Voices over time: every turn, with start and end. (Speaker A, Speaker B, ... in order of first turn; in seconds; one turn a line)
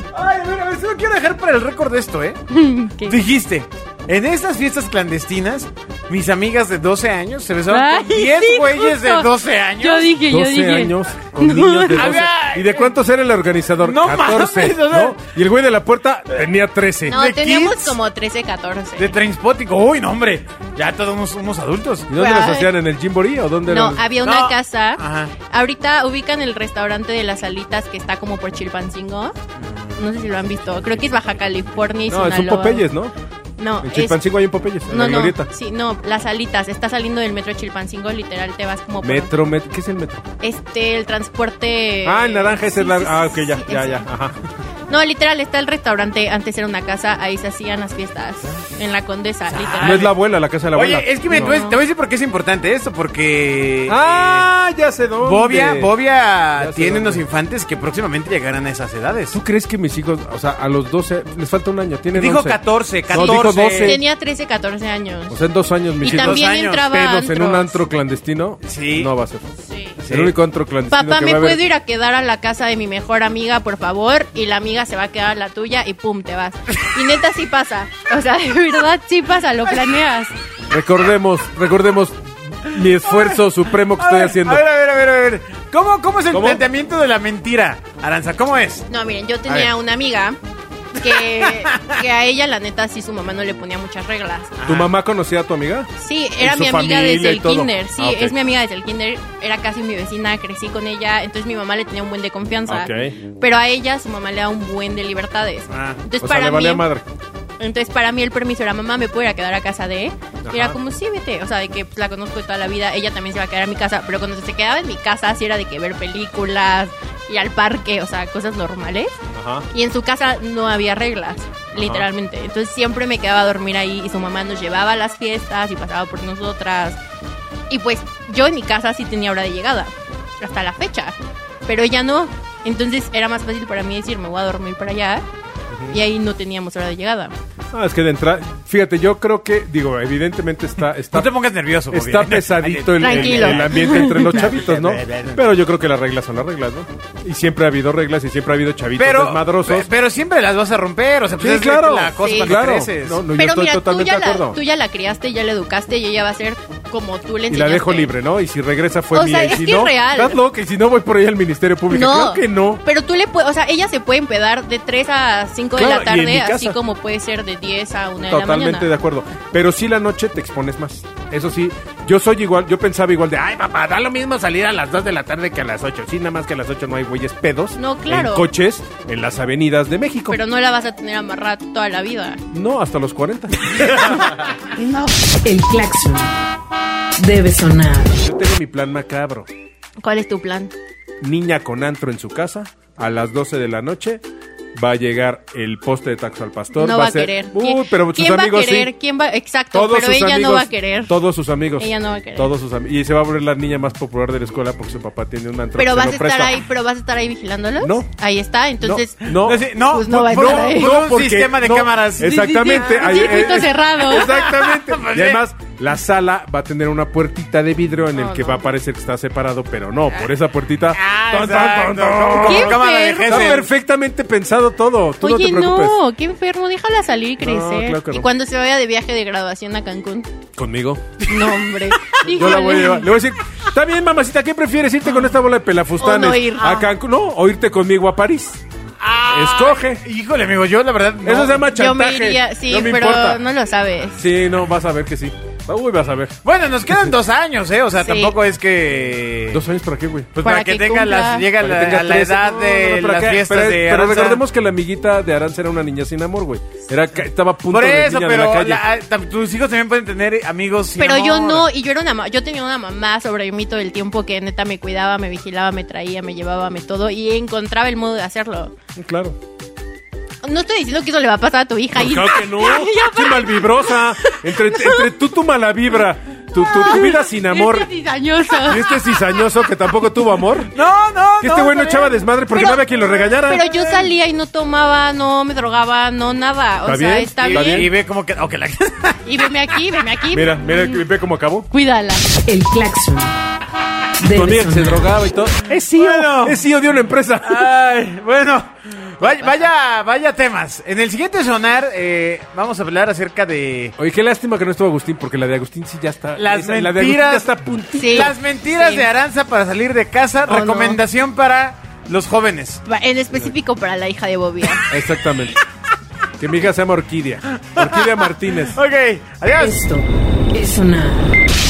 Speaker A: 0.1-2.4
Speaker B: 2.5-3.2
Speaker A: 3.0-10.1
Speaker B: 7.7-9.3
Speaker B: 9.8-12.2
Speaker C: 10.2-17.2
Speaker A: 11.9-12.9
Speaker A: 13.8-15.2
Speaker B: 17.1-19.2
Speaker A: 17.1-18.0
Speaker A: 19.0-22.1
Speaker C: 22.1-24.1
Speaker B: 22.2-22.7
Speaker B: 23.7-29.4
Speaker A: 24.2-25.3
Speaker A: 29.6-30.0
Speaker B: 30.0-32.9
Speaker C: 32.1-33.1
Speaker B: 33.6-34.3
Speaker C: 33.8-35.5
Speaker B: 34.9-39.3
Speaker C: 39.0-40.2
Speaker B: 40.4-44.1
Speaker C: 42.0-44.4
Speaker B: 44.9-50.1
Speaker A: 49.5-50.2
Speaker C: 49.8-51.6
Speaker A: 50.7-54.5
Speaker B: 51.3-51.8
Speaker C: 53.9-55.9
Speaker A: 55.2-59.4
Speaker C: 56.6-57.2
Speaker C: 59.3-64.0
Speaker A: 62.1-64.0
Speaker B: 63.1-65.4
Speaker C: 65.3-69.5
Speaker B: 66.0-67.8
Speaker A: 66.0-66.9
Speaker A: 68.7-69.1
Speaker B: 69.6-70.0
Speaker A: 70.0-70.3
Speaker C: 70.1-71.6
Speaker B: 70.9-80.3
Speaker C: 80.7-84.7
Speaker A: 83.0-88.9
Speaker C: 86.3-86.6
Speaker B: 88.9-90.4
Speaker B: 91.0-94.6
Speaker A: 91.0-92.0
Speaker A: 94.6-94.9
Speaker C: 94.7-98.3
Speaker B: 96.0-106.8
Speaker C: 102.7-103.1
Speaker A: 105.7-106.0
Speaker C: 106.2-107.0
Speaker B: 107.6-119.2
Speaker C: 110.4-110.8
Speaker C: 119.3-119.7
Speaker B: 119.7-127.0
Speaker C: 121.8-122.1
Speaker B: 127.7-135.2
Speaker C: 135.7-136.0
Speaker B: 135.9-137.3
Speaker C: 137.7-141.3
Speaker A: 141.1-145.4
Speaker C: 141.9-149.9
Speaker B: 143.0-144.4
Speaker A: 149.0-153.2
Speaker C: 151.4-154.6
Speaker B: 152.2-152.6
Speaker B: 153.3-158.1
Speaker C: 157.5-162.8
Speaker B: 159.1-160.4
Speaker B: 161.9-168.9
Speaker C: 165.8-166.8
Speaker C: 168.3-180.4
Speaker B: 177.8-178.5
Speaker B: 180.3-182.4
Speaker C: 182.5-184.4
Speaker D: 185.0-186.4
Speaker D: 187.2-188.2
Speaker C: 188.2-189.5
Speaker B: 190.0-190.7
Speaker C: 191.2-194.2
Speaker C: 194.8-198.9
Speaker B: 196.8-201.1
Speaker C: 199.7-206.6
Speaker B: 201.8-202.5
Speaker B: 205.8-210.9
Speaker C: 207.8-208.1
Speaker C: 208.8-226.0
Speaker A: 209.3-215.4
Speaker B: 212.2-214.4
Speaker B: 218.2-218.7
Speaker A: 220.9-223.7
Speaker B: 222.4-223.6
Speaker B: 225.2-230.3
Speaker C: 227.4-228.3
Speaker C: 230.6-231.2
Speaker A: 231.2-232.9
Speaker B: 231.3-233.1
Speaker C: 232.2-238.6
Speaker B: 236.0-236.9
Speaker A: 239.0-241.7
Speaker C: 239.3-240.0
Speaker C: 241.2-243.4
Speaker B: 241.7-244.2
Speaker C: 244.2-247.2
Speaker A: 246.4-249.6
Speaker B: 248.0-248.4
Speaker C: 249.5-250.3
Speaker A: 250.3-254.4
Speaker B: 250.4-251.5
Speaker C: 251.6-258.8
Speaker A: 257.7-261.7
Speaker B: 261.0-268.7
Speaker C: 269.0-269.4
Speaker B: 270.4-275.1
Speaker C: 271.9-277.9
Speaker B: 276.6-279.2
Speaker C: 278.5-280.7
Speaker A: 280.7-282.1
Speaker C: 281.4-283.8
Speaker B: 282.5-287.9
Speaker C: 286.8-287.9
Speaker A: 287.4-289.8
Speaker B: 289.2-291.0
Speaker C: 290.3-291.7
Speaker B: 291.7-292.3
Speaker D: 292.5-293.3
Speaker D: 294.2-295.1
Speaker C: 294.2-297.7
Speaker A: 295.9-296.6
Speaker A: 297.4-303.9
Speaker B: 299.2-299.7
Speaker C: 304.0-308.4
Speaker A: 306.4-307.5
Speaker B: 307.9-309.1
Speaker A: 308.1-312.8
Speaker B: 310.5-311.0
Speaker B: 312.9-314.9
Speaker C: 314.9-315.6
Speaker C: 316.4-318.8
Speaker A: 317.6-319.8
Speaker D: 319.6-321.4